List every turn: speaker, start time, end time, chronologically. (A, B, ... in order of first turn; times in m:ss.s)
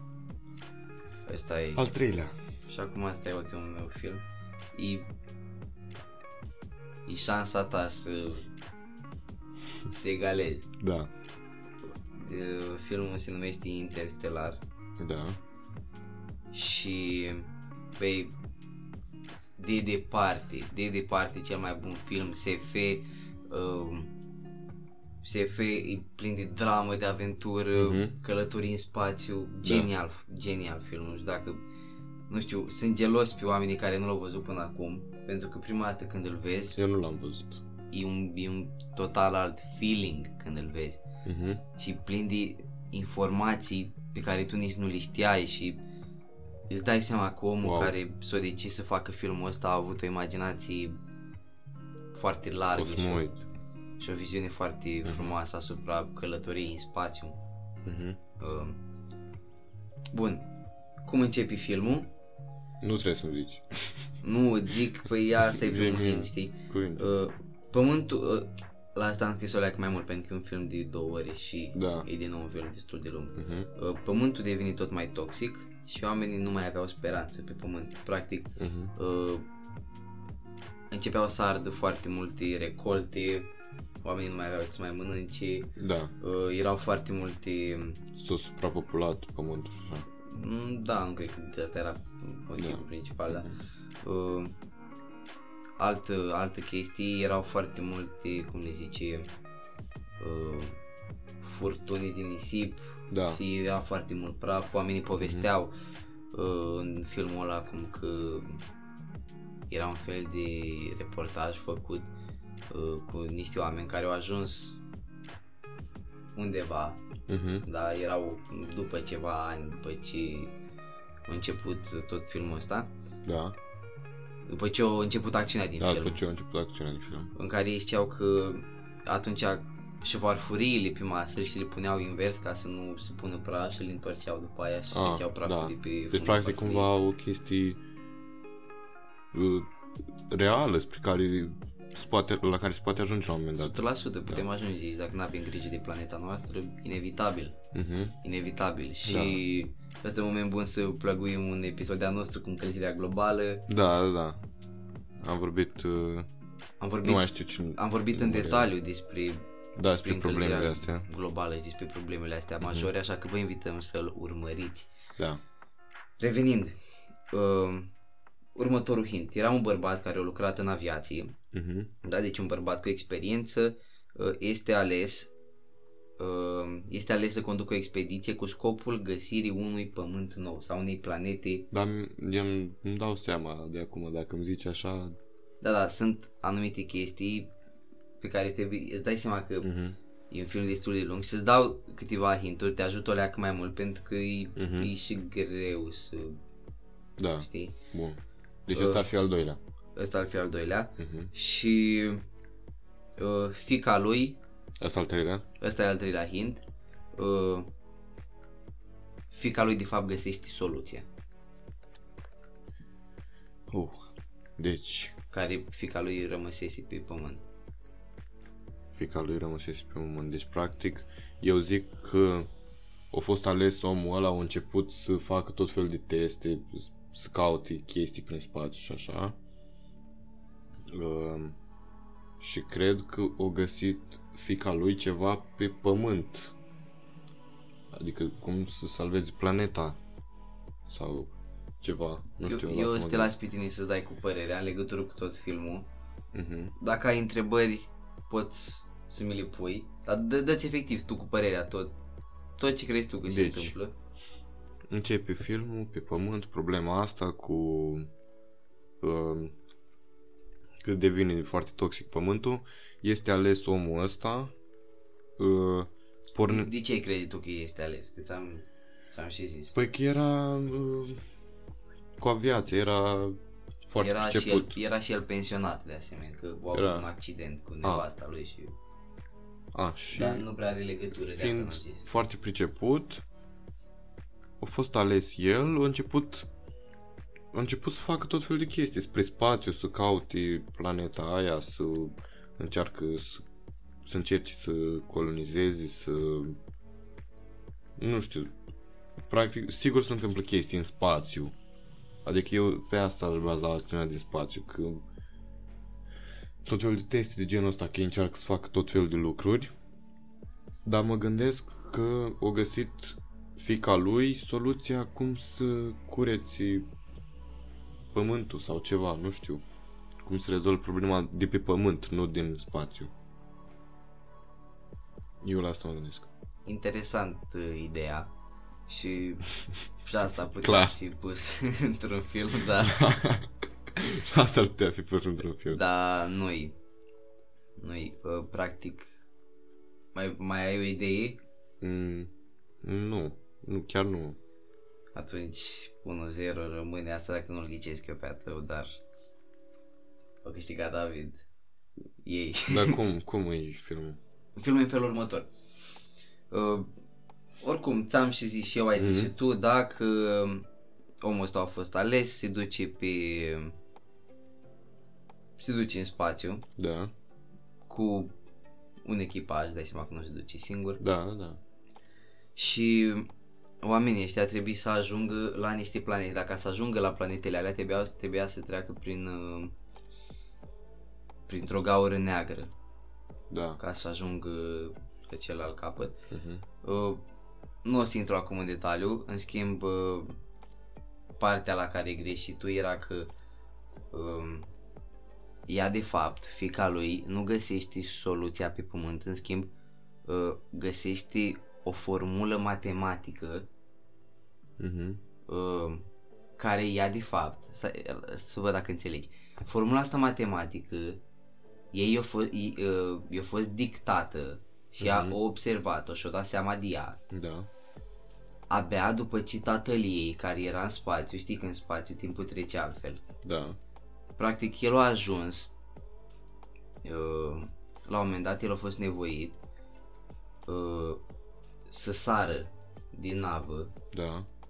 0:01.3-0:01.8 A
0:01.8-0:02.3 B
0:02.7-0:05.1 A
0:07.0-0:08.5 A
0:09.8-0:10.7 A
0:10.8-0:11.1 B
0:12.1-0:14.6 A
0:15.0-0:15.4 B
0:16.5-0:18.3 A
0:19.6-0:24.1 A
0:25.2-0:31.6 A
0:27.8-0:28.1 B
0:29.6-0:29.9 B
0:32.3-0:36.8 A
0:36.8-0:37.6 B
0:37.9-0:41.0 A
0:41.2-0:41.6 B
0:41.8-0:45.8 A
0:46.7-0:51.0 A
0:47.6-0:47.9 B
0:52.1-0:53.3 A
0:52.8-0:53.4 B
0:54.0-0:57.4 A
0:55.0-0:55.4 B
0:57.8-0:58.2 B
0:58.4-0:58.8 A
1:00.1-1:00.5 A
1:01.0-1:02.1 A
1:02.8-1:04.0 B
1:04.2-1:19.4 A
1:05.4-1:07.1 B
1:11.7-1:12.1 B
1:13.4-1:13.7 B
1:18.6-1:18.9 B
1:20.9-1:23.5 A
1:24.0-1:28.0 A
1:25.8-1:26.1 B
1:28.2-1:30.1 B
1:30.2-1:33.5 A
1:32.6-1:33.5 B
1:34.0-1:34.6 A
1:35.8-1:39.3 A
1:40.2-1:40.8 A
1:41.4-1:45.7 A
1:43.1-1:43.4 B
1:45.2-1:45.5 B
1:46.3-1:48.6 A
1:49.7-1:52.1 A
1:52.7-1:54.8 A
1:56.4-1:57.0 A
1:57.3-1:57.6 B
1:57.6-2:00.5 A
2:01.3-2:02.9 A
2:03.2-2:03.6 B
2:04.5-2:06.2 A
2:05.8-2:07.3 B
2:07.3-2:16.9 A
2:14.9-2:17.8 B
2:19.3-2:24.4 B
2:23.6-2:27.6 A
2:27.7-2:28.2 B
2:28.2-2:33.7 A
2:29.0-2:29.4 B
2:33.7-2:34.4 B
2:35.2-2:36.3 B
2:36.8-2:37.2 A
2:37.0-2:38.7 B
2:37.7-2:44.9 A
2:39.8-2:41.1 B
2:42.6-2:42.9 B
2:46.2-2:46.8 A
2:47.3-2:47.9 A
2:48.5-2:51.4 A
2:51.5-2:51.9 B
2:52.0-2:55.3 A
2:56.2-3:01.7 A
3:01.7-3:05.2 B
3:05.6-3:07.5 A
3:08.2-3:09.7 A
3:09.6-3:10.0 B
3:10.3-3:16.4 A
3:14.6-3:14.9 B
3:17.2-3:19.6 B
3:17.4-3:17.8 A
3:18.7-3:19.0 A
3:20.0-3:22.2 A
3:21.0-3:21.3 B
3:23.2-3:24.4 A
3:24.8-3:25.4 B
3:25.6-3:26.6 A
3:27.1-3:27.7 A
3:29.3-3:31.1 A
3:33.7-3:34.0 B
3:34.6-3:35.1 B
3:35.3-3:37.4 A
3:38.9-3:42.5 B
3:43.1-3:49.4 B
3:50.9-3:51.6 B
3:52.4-3:56.5 B
3:57.9-4:00.0 B
4:00.9-4:03.3 B
4:02.4-4:05.9 A
4:06.3-4:06.7 B
4:06.8-4:12.0 A
4:12.6-4:13.9 A
4:13.3-4:13.7 B
4:14.9-4:18.1 B
4:19.0-4:19.5 B
4:20.8-4:24.5 B
4:25.4-4:26.7 B
4:26.4-4:29.7 A
4:29.7-4:31.2 B
4:32.2-4:34.8 B
4:34.0-4:38.8 A
4:36.7-4:37.1 B
4:39.7-4:40.4 B
4:40.1-4:42.1 A
4:41.2-4:43.2 B
4:44.6-4:46.5 B
4:47.5-4:53.4 B
4:54.0-4:56.6 B
4:58.0-4:58.5 B
4:59.3-5:01.5 B
5:02.2-5:05.0 B
5:06.6-5:09.7 B
5:10.8-5:16.9 B
5:18.1-5:19.6 B
5:20.2-5:23.1 B
5:25.4-5:26.3 B
5:26.6-5:28.3 A
5:28.9-5:29.5 A
5:30.0-5:33.0 A
5:30.6-5:30.9 B
5:32.8-5:35.8 B
5:35.7-5:36.7 A
5:37.8-5:39.1 A
5:40.1-5:41.4 A
5:41.8-5:42.3 B
5:42.8-5:44.4 B
5:45.1-5:48.9 A
5:50.4-5:51.4 A
5:52.2-5:53.0 A
5:52.7-5:54.2 B
5:54.6-5:55.5 A
5:56.5-5:56.9 A
5:57.6-6:00.7 A
5:59.0-5:59.3 B
6:01.2-6:03.8 A
6:05.6-6:06.6 A
6:06.8-6:07.1 B
6:07.9-6:08.3 A
6:09.0-6:11.0 A
6:11.0-6:11.6 B
6:12.6-6:13.3 A
6:13.8-6:19.7 A
6:21.5-6:22.7 A
6:23.5-6:23.8 B
6:23.8-6:26.1 A
6:26.3-6:26.6 B
6:26.8-6:27.2 A
6:27.8-6:30.3 A
6:31.4-6:33.3 A
6:34.1-6:34.7 A
6:35.7-6:39.7 A
6:40.2-6:43.7 A
6:44.8-6:45.2 B
6:45.5-6:51.2 A
6:51.9-6:57.2 A
6:55.0-6:55.4 B
6:57.3-6:57.7 B
6:58.7-7:03.2 A
7:03.4-7:03.8 B
7:04.4-7:05.7 A
7:07.0-7:09.6 A
7:10.7-7:11.2 A
7:11.9-7:13.9 A
7:14.1-7:14.5 B